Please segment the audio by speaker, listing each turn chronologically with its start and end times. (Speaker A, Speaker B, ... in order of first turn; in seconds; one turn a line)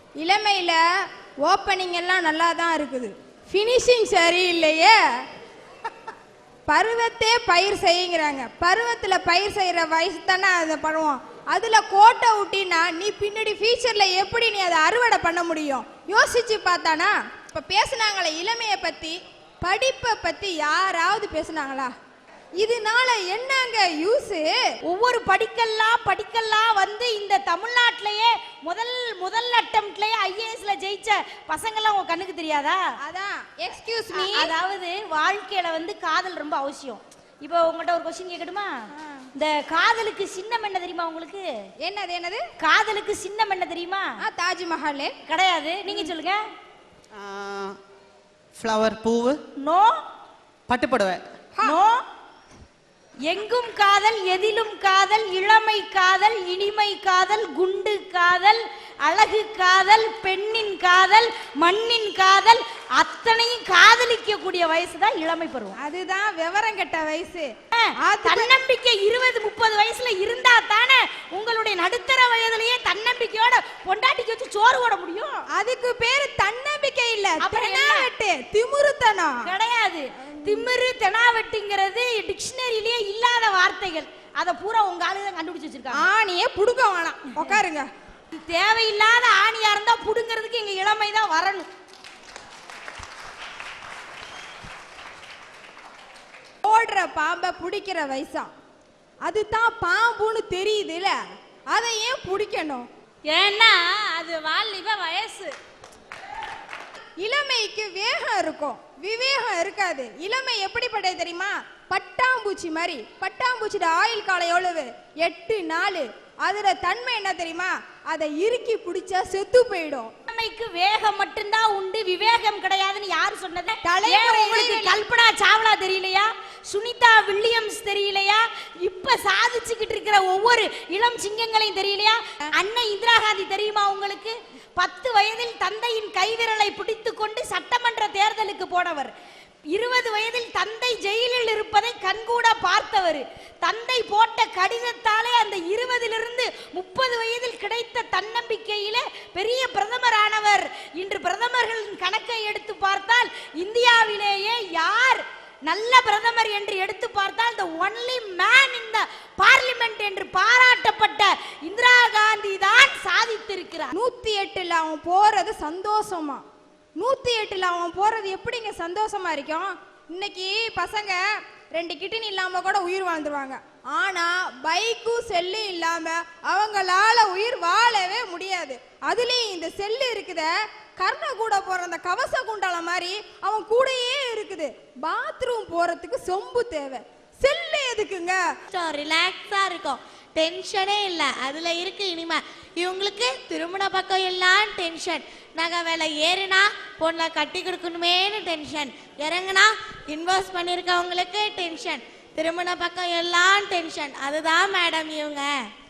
Speaker A: 0.2-0.8
Speaker A: 1.4-5.0
Speaker A: 6.7-21.9
Speaker A: 22.6-24.5
Speaker B: 24.9-32.8
Speaker A: 33.0-34.5
Speaker B: 34.1-41.5
Speaker A: 39.0-39.3
Speaker A: 41.8-42.4
Speaker B: 42.6-44.1
Speaker A: 44.2-45.1
Speaker B: 45.2-46.4
Speaker C: 47.1-47.8
Speaker C: 48.5-49.4
Speaker B: 49.6-50.0
Speaker C: 50.7-51.2
Speaker B: 51.6-52.0
Speaker B: 53.3-65.8
Speaker A: 65.8-68.5
Speaker B: 67.7-75.5
Speaker A: 75.5-79.5
Speaker B: 77.4-78.1
Speaker B: 79.4-86.0
Speaker A: 80.4-80.7
Speaker A: 85.9-87.9
Speaker B: 88.3-91.7
Speaker A: 96.6-98.5
Speaker A: 99.2-101.2
Speaker A: 101.7-102.9
Speaker B: 103.3-105.5
Speaker A: 107.2-120.1
Speaker B: 120.3-139.1
Speaker A: 123.8-125.0
Speaker B: 139.7-163.9
Speaker A: 163.9-166.4
Speaker A: 167.0-171.2
Speaker A: 171.7-188.4
Speaker D: 188.7-205.7